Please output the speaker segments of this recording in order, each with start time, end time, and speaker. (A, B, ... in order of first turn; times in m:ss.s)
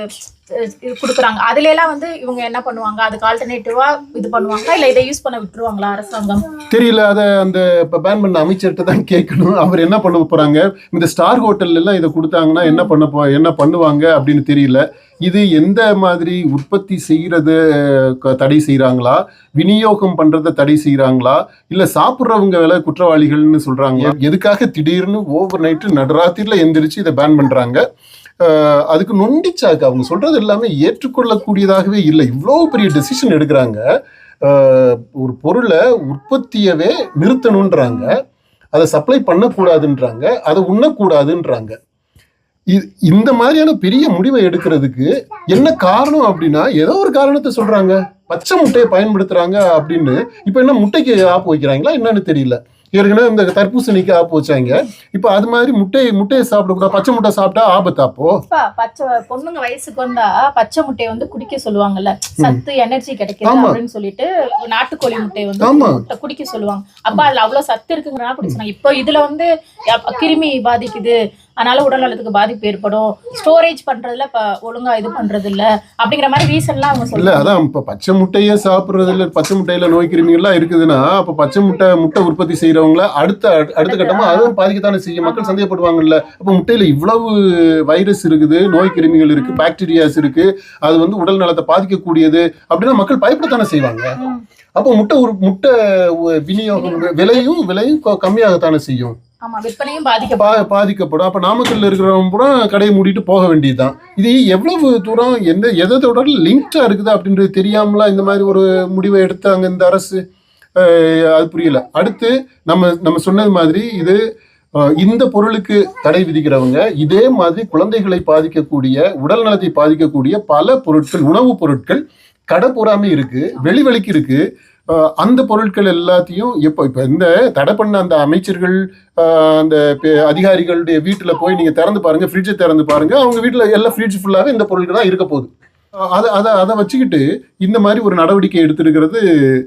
0:00.5-0:06.4 A
0:06.7-0:27.8 B
0:12.6-0:12.9 A
0:28.4-0:33.8 B
0:34.4-0:38.2 B
0:38.7-0:41.8 B
0:42.7-0:58.4 B
0:58.5-1:17.5 A
1:03.4-1:03.8 B
1:05.6-1:06.0 B
1:17.1-1:34.1 B
1:23.9-1:24.5 A
1:25.2-1:25.6 A
1:29.4-1:29.6 A
1:34.8-1:39.2 B
1:36.8-1:37.4 A
1:39.4-1:40.7 A
1:40.4-1:50.2 B
1:50.8-1:54.2 B
1:54.8-2:04.4 B
2:04.9-2:15.5 B
2:16.1-2:19.2 B